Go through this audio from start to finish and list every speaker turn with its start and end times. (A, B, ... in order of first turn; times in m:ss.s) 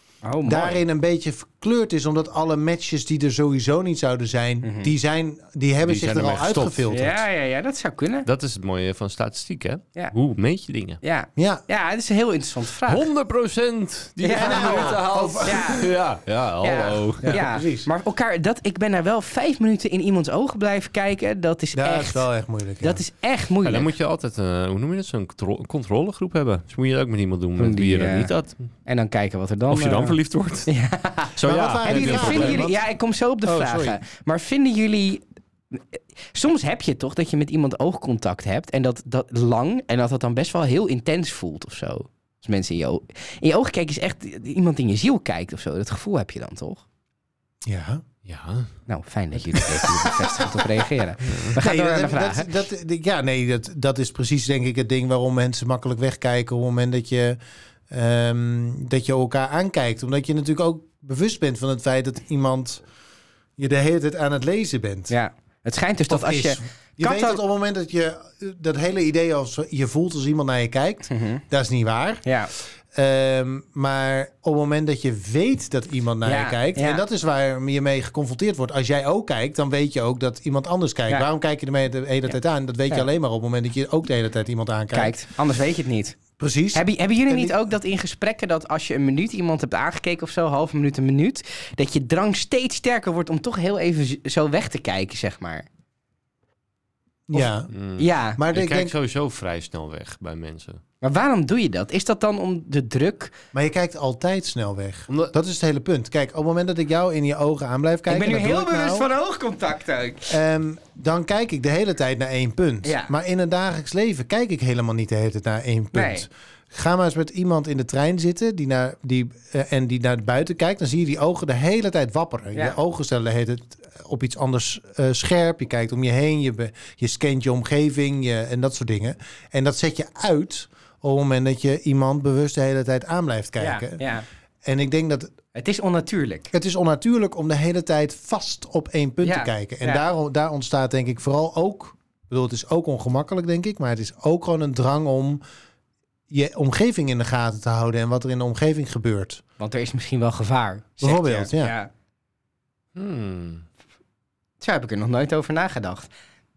0:00.2-0:00.8 A
0:00.4-0:07.1 B
0:04.6-0:04.9 A
0:05.8-0:07.2 C
0:06.9-0:08.3 A
0:08.3-0:11.0 C
0:11.0-0:13.1 A
0:11.4-0:11.6 B
0:12.9-0:17.4 C
0:14.2-0:15.9 A
0:14.3-0:15.8 B
0:16.6-0:22.2 A
0:17.2-0:17.9 B
0:21.8-0:23.0 B
0:22.8-0:23.9 A
0:23.6-0:28.6 C
0:27.6-0:28.3 A
0:28.9-0:30.2 A
0:29.7-0:30.7 C
0:30.7-0:46.8 A
0:31.4-0:32.7 C
0:31.4-0:32.8 B
0:33.4-0:34.0 B
0:47.6-0:48.0 B
0:48.2-0:48.7 C
0:48.9-0:52.5 A
0:49.5-0:50.5 B
0:51.2-0:51.5 C
0:51.6-0:57.4 B
0:57.9-1:02.8 B
1:03.6-1:05.1 B
1:05.1-1:07.4 A
1:06.1-1:12.2 B
1:11.1-1:11.4 A
1:12.2-1:12.5 A
1:12.9-1:25.2 B
1:16.2-1:17.0 A
1:24.9-1:26.2 A
1:26.4-1:27.6 B
1:26.7-1:35.7 A
1:37.3-1:37.7 B
1:37.7-1:40.8 C
1:38.0-1:38.4 A
1:38.4-1:38.9 B
1:41.0-1:43.3 A
1:43.5-1:49.1 B
1:48.1-1:50.4 A
1:50.3-2:14.0 B
1:52.8-1:53.1 A
1:55.9-1:56.3 A
2:13.6-2:14.2 A
2:14.6-2:15.4 B
2:15.5-2:16.5 A
2:16.5-2:25.4 B
2:19.2-2:20.0 A
2:26.3-2:29.4 B
2:29.6-2:31.9 A
2:31.0-2:31.7 B
2:33.0-2:33.6 C
2:34.6-2:36.1 A